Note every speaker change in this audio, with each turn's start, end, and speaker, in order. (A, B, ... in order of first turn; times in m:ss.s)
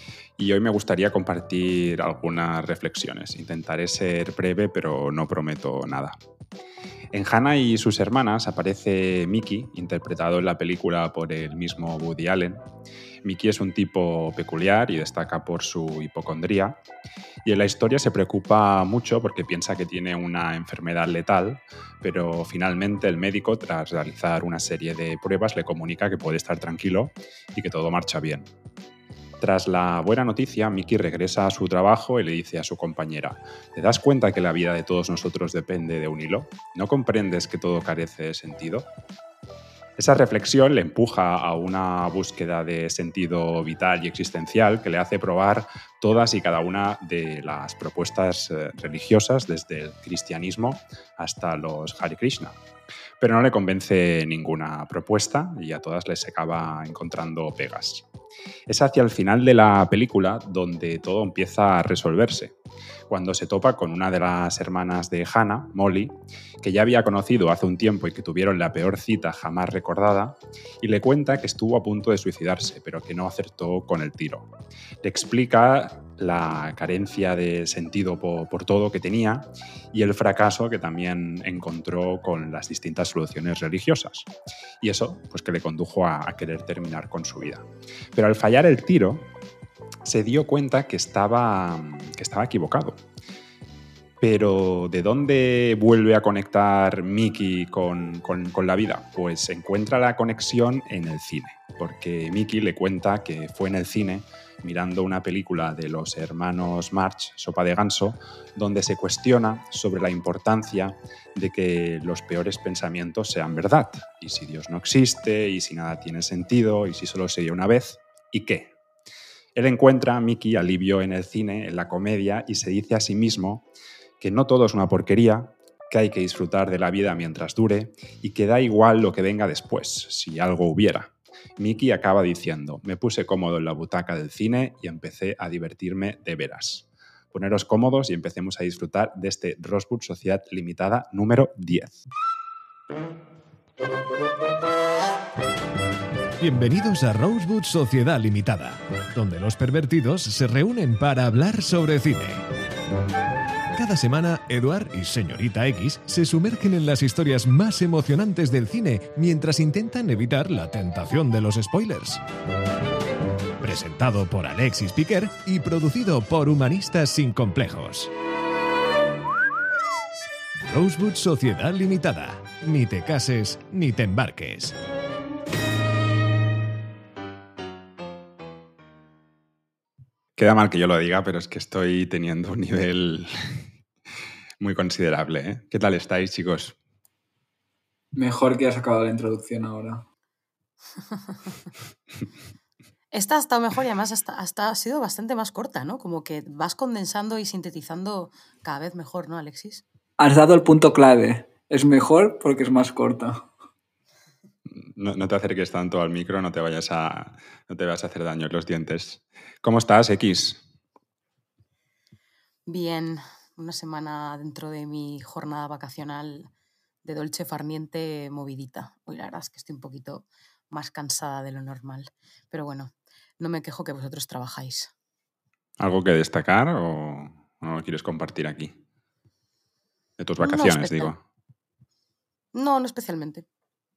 0:00.4-0:06.2 A
0:07.1-0:12.6 A
0:13.2-0:16.8 A
0:17.4-0:28.5 A
0:29.4-0:38.9 A
0:40.0-0:52.6 A
0:53.2-0:58.1 A
0:58.7-1:02.6 A
1:03.1-1:14.5 A
1:15.0-1:24.3 A
1:24.8-1:29.3 A
1:30.0-1:33.0 A
1:34.2-1:58.7 A
1:59.6-2:03.7 A
2:04.2-2:22.0 A
2:26.4-2:32.4 B
2:33.7-2:42.2 B
2:43.6-2:48.1 B
2:50.6-2:54.8 B
3:00.4-3:03.7 A
3:04.6-3:06.8 A
3:08.2-3:10.0 C
3:11.1-3:11.5 D
3:13.1-3:19.8 D
3:20.2-3:23.5 C
3:24.7-3:30.6 A
3:32.7-3:36.5 D
3:37.0-3:44.9 D
3:45.8-3:48.8 A
3:50.2-3:51.2 A
3:50.4-3:51.1 D
3:52.5-3:53.4 D